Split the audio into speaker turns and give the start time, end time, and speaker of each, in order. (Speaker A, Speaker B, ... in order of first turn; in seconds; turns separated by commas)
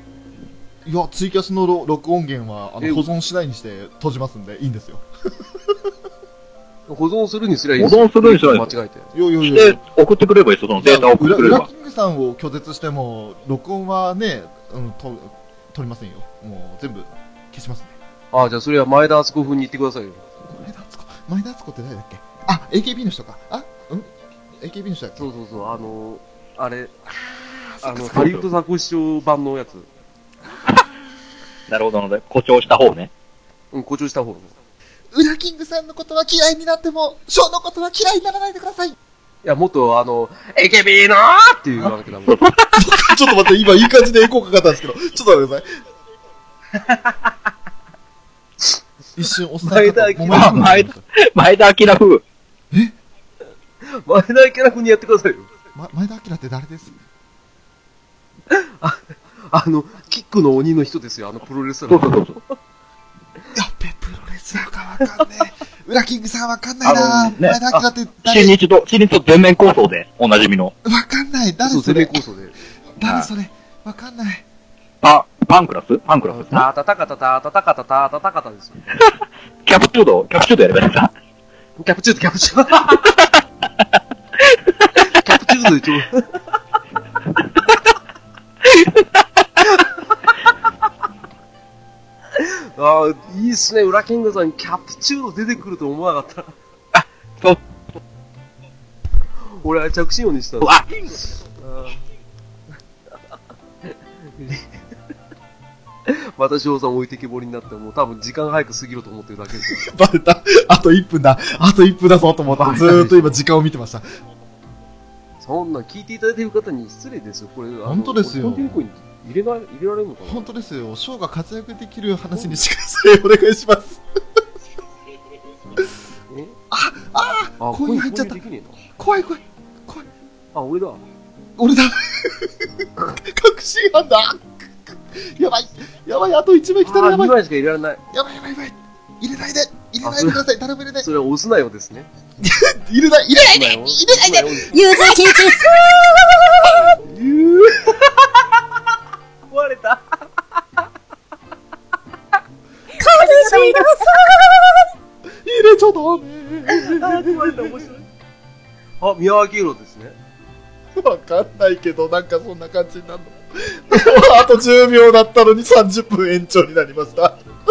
Speaker A: 0.8-5.0, Speaker B: 2.8-3.1, Speaker B: 6.9-9.1, Speaker C: 7.8-8.7, Speaker A: 9.1-9.8, Speaker C: 9.4-11.7, Speaker A: 10.8-17.9, Speaker B: 18.3-20.2, Speaker A: 20.6-25.3, Speaker B: 25.2-26.9, Speaker A: 27.4-28.3, Speaker B: 27.8-29.9, Speaker C: 28.1-28.4, Speaker C: 31.7-33.1, Speaker B: 33.7-34.5, Speaker A: 35.1-39.0, Speaker B: 39.4-42.4, Speaker C: 42.3-43.2, Speaker A: 42.8-45.7, Speaker B: 46.8-47.3, Speaker A: 49.2-51.0, Speaker B: 49.6-50.6, Speaker C: 50.3-52.2, Speaker A: 52.7-53.0, Speaker B: 53.8-55.5, Speaker A: 55.7-57.0, Speaker B: 58.5-62.5, Speaker C: 61.9-62.4, Speaker A: 63.5-68.6, Speaker C: 66.8-67.6, Speaker C: 68.2-70.8, Speaker A: 70.8-72.2, Speaker B: 71.7-72.6, Speaker A: 73.0-74.5, Speaker C: 75.0-76.7, Speaker B: 76.3-79.0, Speaker C: 79.7-81.1, Speaker B: 81.8-83.1, Speaker B: 85.0-86.4, Speaker B: 92.3-96.5, Speaker C: 97.0-97.6, Speaker B: 99.5-100.8, Speaker C: 100.6-101.2, Speaker B: 101.6-102.0, Speaker B: 103.9-104.8, Speaker B: 106.1-109.9, Speaker A: 109.6-114.0, Speaker B: 112.5-113.4, Speaker B: 115.4-120.5, Speaker A: 117.9-118.8, Speaker A: 120.2-124.0, Speaker B: 126.3-126.6, Speaker A: 126.7-128.4, Speaker B: 127.6-128.8, Speaker A: 129.0-130.1, Speaker B: 130.5-131.0, Speaker A: 131.6-137.4, Speaker B: 136.8-138.0, Speaker A: 138.1-141.1, Speaker B: 140.0-140.4, Speaker B: 141.0-142.1, Speaker A: 142.4-147.0, Speaker B: 143.4-145.4, Speaker B: 147.0-148.3, Speaker B: 149.5-150.2, Speaker A: 153.0-154.2, Speaker B: 153.0-154.1, Speaker A: 155.4-157.8, Speaker B: 156.7-158.1, Speaker B: 159.0-160.2, Speaker A: 161.0-167.4